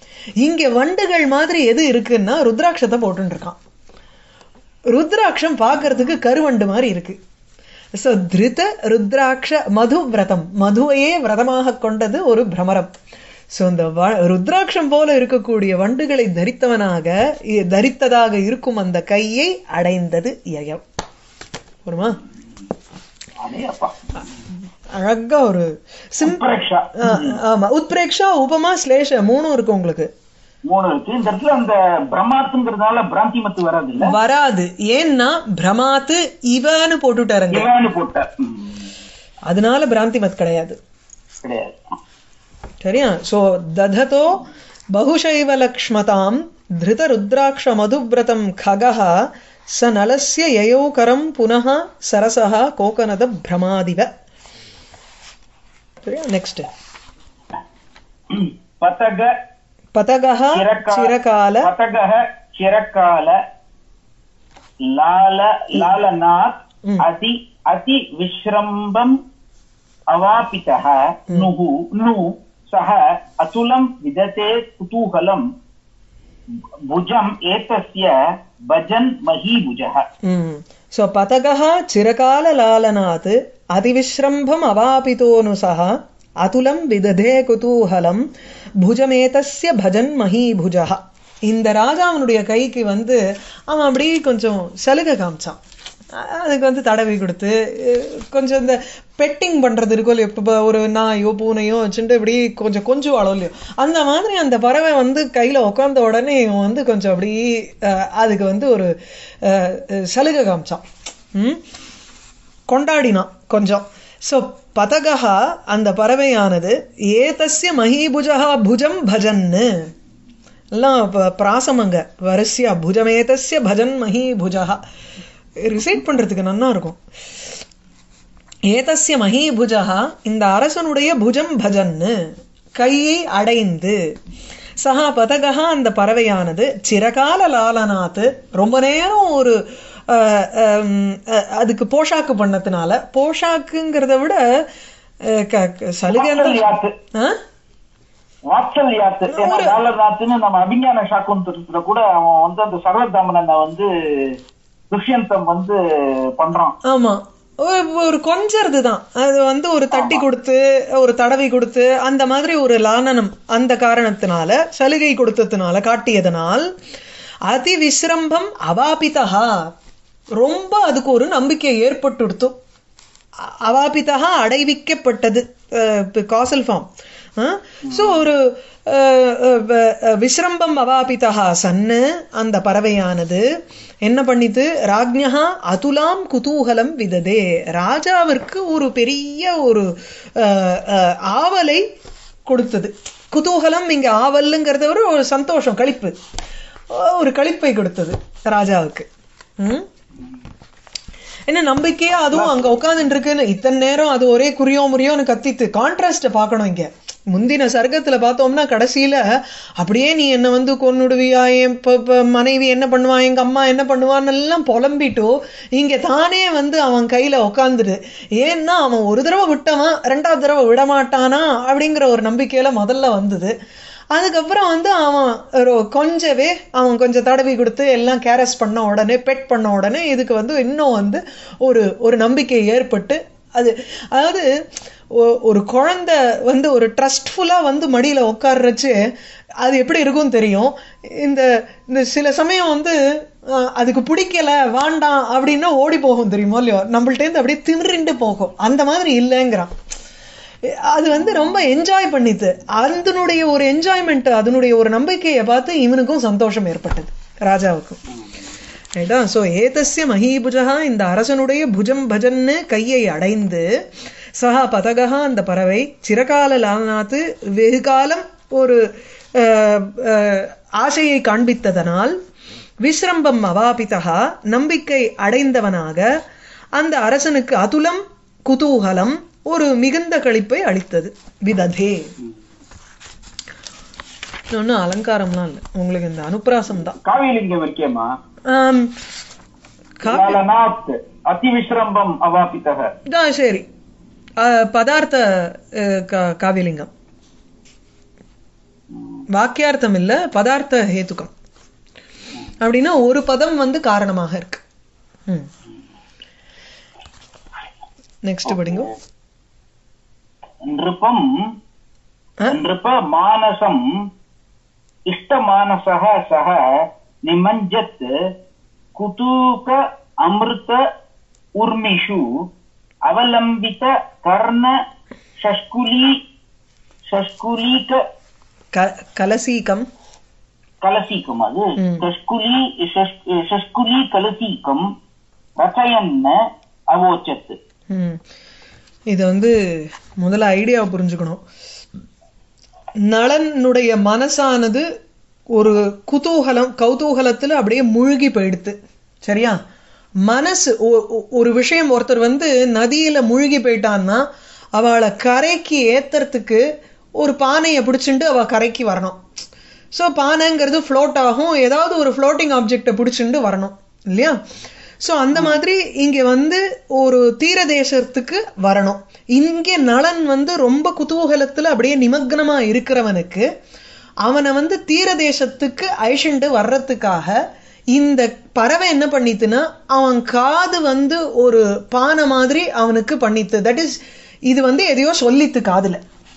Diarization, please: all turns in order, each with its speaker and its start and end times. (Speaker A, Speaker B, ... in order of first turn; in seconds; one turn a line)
Speaker A: 0.4-3.6
Speaker A: 4.9-7.2
Speaker B: 5.8-6.1
Speaker A: 8.0-12.9
Speaker A: 13.5-20.8
Speaker A: 21.9-22.2
Speaker B: 23.4-24.3
Speaker A: 24.9-30.1
Speaker B: 26.2-27.4
Speaker B: 30.7-34.1
Speaker A: 34.0-37.7
Speaker B: 37.5-38.9
Speaker A: 39.5-40.8
Speaker B: 41.4-41.8
Speaker A: 42.8-49.2
Speaker A: 49.7-54.1
Speaker A: 56.0-56.7
Speaker B: 58.3-59.3
Speaker A: 59.9-61.7
Speaker B: 60.5-63.4
Speaker B: 64.8-69.2
Speaker B: 70.1-75.5
Speaker B: 76.9-80.0
Speaker A: 80.2-88.2
Speaker A: 88.8-93.2
Speaker A: 93.7-95.6
Speaker A: 96.1-108.9
Speaker A: 109.4-111.6
Speaker A: 112.7-119.9
Speaker A: 120.8-124.8
Speaker A: 125.6-127.0
Speaker A: 128.7-132.2
Speaker A: 132.8-134.0
Speaker A: 134.8-144.4
Speaker A: 145.2-147.4
Speaker B: 146.1-146.9
Speaker B: 148.5-154.3
Speaker A: 149.3-149.8
Speaker B: 154.9-155.8
Speaker B: 156.3-156.7
Speaker A: 156.8-166.7
Speaker B: 159.9-160.2
Speaker A: 167.5-169.7
Speaker A: 170.4-172.5
Speaker A: 173.4-176.9
Speaker A: 177.4-183.4
Speaker B: 177.9-178.2
Speaker A: 184.0-191.8
Speaker A: 192.5-196.1
Speaker A: 196.9-199.1
Speaker A: 199.6-199.9
Speaker A: 201.5-209.2
Speaker B: 202.3-202.8
Speaker A: 209.8-223.5
Speaker A: 224.1-234.5
Speaker A: 235.1-239.0
Speaker A: 239.6-243.0
Speaker A: 243.5-249.7
Speaker A: 250.7-258.0
Speaker A: 258.9-263.6
Speaker A: 264.4-268.8
Speaker A: 269.3-272.2
Speaker A: 272.8-276.1
Speaker A: 276.8-282.1
Speaker A: 284.5-286.9
Speaker B: 286.9-288.1
Speaker A: 288.5-288.9
Speaker A: 290.0-290.4
Speaker B: 290.1-292.9
Speaker A: 293.1-293.6
Speaker A: 294.4-296.9
Speaker A: 299.3-301.3
Speaker A: 302.6-304.6
Speaker A: 308.2-308.9
Speaker B: 308.5-308.9
Speaker B: 310.6-311.5
Speaker B: 312.5-314.0
Speaker B: 315.1-318.1
Speaker B: 318.9-320.8
Speaker B: 321.6-322.3
Speaker B: 323.1-324.8
Speaker B: 325.4-326.2
Speaker B: 327.1-328.0
Speaker A: 328.7-329.9
Speaker B: 330.8-334.9
Speaker A: 331.8-332.1
Speaker B: 335.6-336.4
Speaker B: 336.9-337.6
Speaker A: 337.9-338.2
Speaker A: 339.1-341.4
Speaker A: 343.1-344.9
Speaker A: 345.5-349.6
Speaker A: 350.2-356.6
Speaker A: 357.2-359.2
Speaker A: 359.9-364.4
Speaker A: 365.0-373.4
Speaker B: 365.3-365.6
Speaker A: 374.2-377.4
Speaker A: 377.9-384.0
Speaker A: 384.5-386.0